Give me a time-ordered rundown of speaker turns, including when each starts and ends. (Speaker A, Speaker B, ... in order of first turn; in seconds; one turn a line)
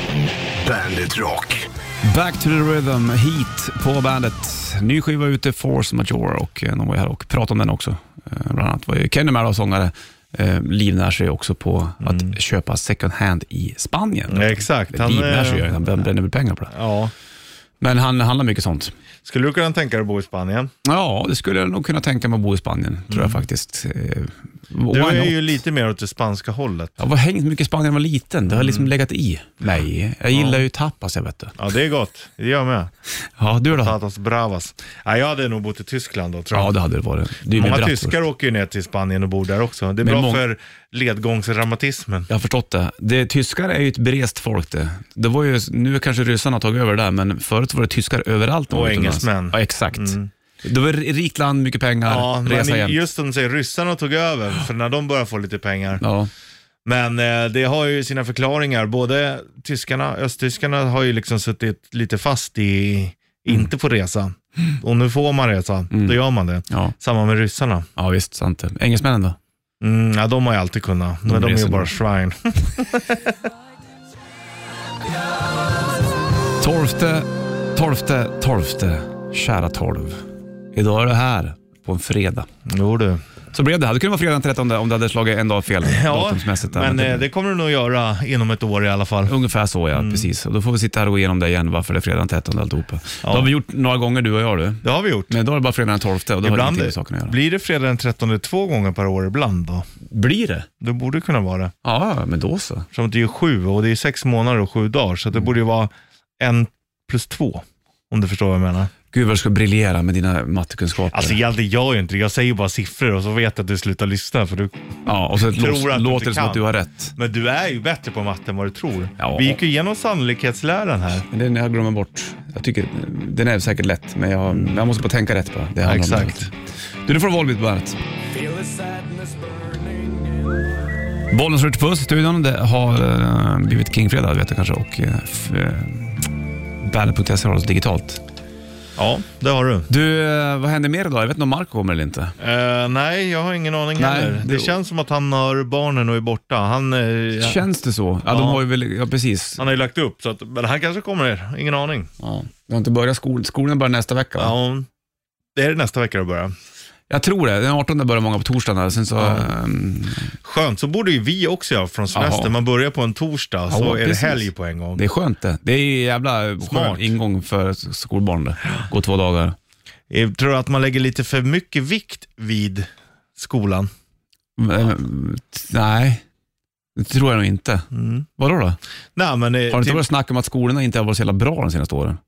Speaker A: 0.6-1.6
Speaker B: 2.1-16.8
Speaker C: 12.0-12.3
Speaker C: 14.3-15.7
Speaker C: 16.7-17.1
Speaker B: 17.8-18.9
Speaker C: 19.2-20.7
Speaker B: 20.9-25.6
Speaker C: 23.1-23.4
Speaker C: 24.9-26.9
Speaker B: 27.0-31.6
Speaker C: 28.5-28.9
Speaker C: 30.3-30.6
Speaker C: 31.6-32.9
Speaker B: 33.4-34.0
Speaker C: 33.7-36.7
Speaker B: 36.5-38.2
Speaker C: 37.5-42.3
Speaker B: 40.0-40.5
Speaker B: 42.3-53.0
Speaker C: 48.7-50.3
Speaker C: 52.0-56.0
Speaker B: 56.0-56.3
Speaker C: 56.9-67.9
Speaker B: 65.9-66.9
Speaker B: 68.0-69.4
Speaker C: 69.8-73.2
Speaker B: 71.3-71.9
Speaker B: 76.6-80.2
Speaker B: 80.8-82.5
Speaker C: 82.7-83.2
Speaker B: 83.5-87.3
Speaker C: 85.9-89.3
Speaker B: 89.3-97.4
Speaker C: 89.9-90.3
Speaker C: 93.2-93.5
Speaker C: 94.8-95.3
Speaker C: 96.4-99.8
Speaker B: 100.1-100.7
Speaker C: 100.8-101.7
Speaker B: 101.8-102.9
Speaker C: 102.9-108.9
Speaker B: 109.1-111.4
Speaker C: 111.1-114.7
Speaker B: 115.1-117.2
Speaker C: 115.4-116.6
Speaker C: 117.2-121.2
Speaker B: 119.2-119.6
Speaker B: 121.3-126.5
Speaker C: 125.8-126.5
Speaker B: 127.1-128.0
Speaker A: 128.3-130.7
Speaker B: 131.3-136.3
Speaker B: 136.8-138.2
Speaker C: 139.0-139.9
Speaker B: 139.9-142.4
Speaker C: 142.4-147.6
Speaker B: 144.0-144.8
Speaker B: 147.4-149.6
Speaker C: 148.3-148.7
Speaker C: 149.6-152.1
Speaker B: 152.2-154.6
Speaker C: 154.4-154.9
Speaker C: 155.6-156.6
Speaker B: 157.1-160.3
Speaker C: 159.2-159.5
Speaker C: 160.4-165.0
Speaker B: 162.1-162.5
Speaker B: 163.7-169.6
Speaker C: 166.7-167.1
Speaker C: 170.1-173.9
Speaker B: 174.6-176.2
Speaker B: 177.0-178.8
Speaker C: 177.9-178.3
Speaker C: 179.2-180.0
Speaker B: 179.7-182.2